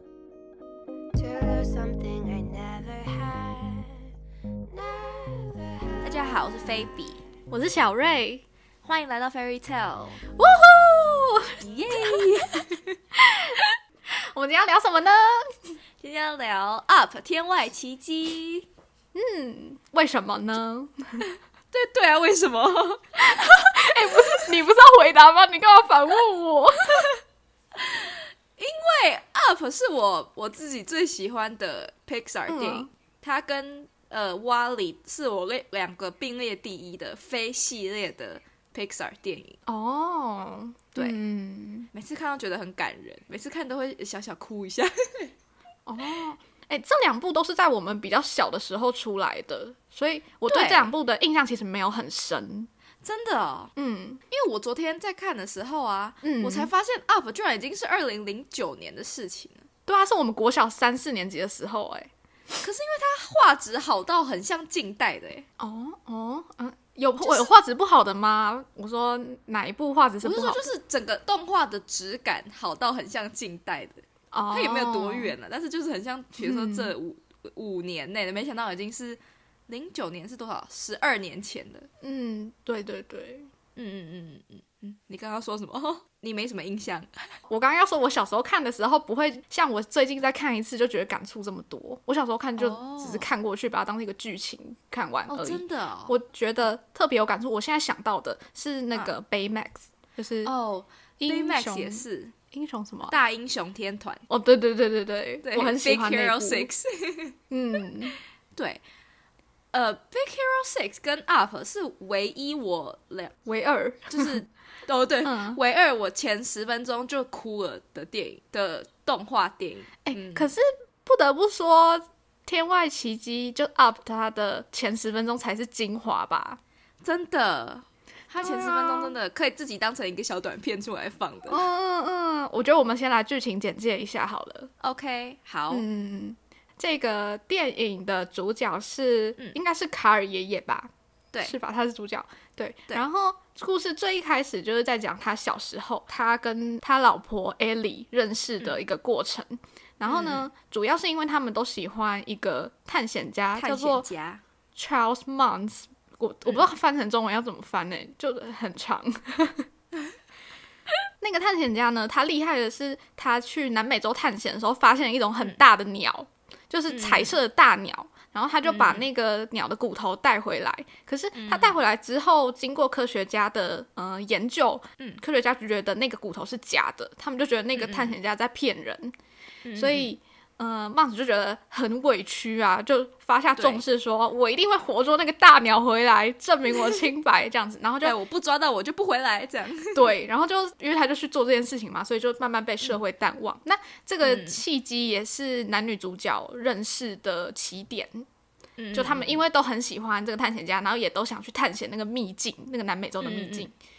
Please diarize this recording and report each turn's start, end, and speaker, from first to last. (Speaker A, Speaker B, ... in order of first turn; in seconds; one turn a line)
Speaker A: 1.1-4.0
Speaker A: 4.7-7.1
Speaker B: 6.0-7.2
Speaker C: 7.5-8.4
Speaker B: 8.8-10.2
Speaker C: 10.3-12.3
Speaker B: 11.6-12.7
Speaker C: 13.2-15.8
Speaker B: 16.0-18.7
Speaker C: 19.1-21.3
Speaker B: 21.7-23.5
Speaker C: 23.2-27.1
Speaker B: 27.7-39.6
Speaker C: 32.5-32.9
Speaker C: 39.7-41.9
Speaker B: 41.9-45.3
Speaker C: 45.9-52.7
Speaker B: 50.5-50.9
Speaker B: 53.0-53.7
Speaker C: 53.8-54.2
Speaker B: 54.3-59.6
Speaker C: 56.2-56.7
Speaker C: 59.9-62.1
Speaker B: 62.6-65.5
Speaker C: 65.6-70.7
Speaker B: 67.2-67.5
Speaker B: 70.2-81.9
Speaker C: 74.3-75.3
Speaker C: 76.4-76.9
Speaker C: 82.0-83.5
Speaker B: 83.8-87.1
Speaker C: 87.5-100.5
Speaker B: 92.6-93.3
Speaker B: 95.3-96.1
Speaker B: 100.4-102.3
Speaker C: 101.2-103.2
Speaker B: 103.1-104.2
Speaker C: 104.3-106.7
Speaker B: 105.4-107.3
Speaker C: 107.5-108.2
Speaker B: 108.5-108.8
Speaker B: 109.7-113.3
Speaker C: 113.5-114.4
Speaker B: 114.1-120.5
Speaker C: 115.2-115.6
Speaker C: 120.0-126.6
Speaker B: 127.0-131.6
Speaker C: 128.4-129.1
Speaker C: 131.5-134.7
Speaker B: 134.8-135.8
Speaker C: 135.7-140.9
Speaker C: 141.4-154.1
Speaker B: 150.1-150.5
Speaker B: 153.5-154.4
Speaker C: 154.7-159.7
Speaker C: 161.2-179.1
Speaker B: 166.9-167.3
Speaker B: 168.6-169.1
Speaker B: 171.3-171.8
Speaker B: 177.8-178.1
Speaker B: 179.6-180.1
Speaker C: 179.7-188.1
Speaker B: 183.6-183.8
Speaker B: 188.0-190.1
Speaker C: 189.9-198.2
Speaker B: 194.2-194.6
Speaker B: 198.8-199.4
Speaker C: 198.9-203.7
Speaker B: 203.2-203.7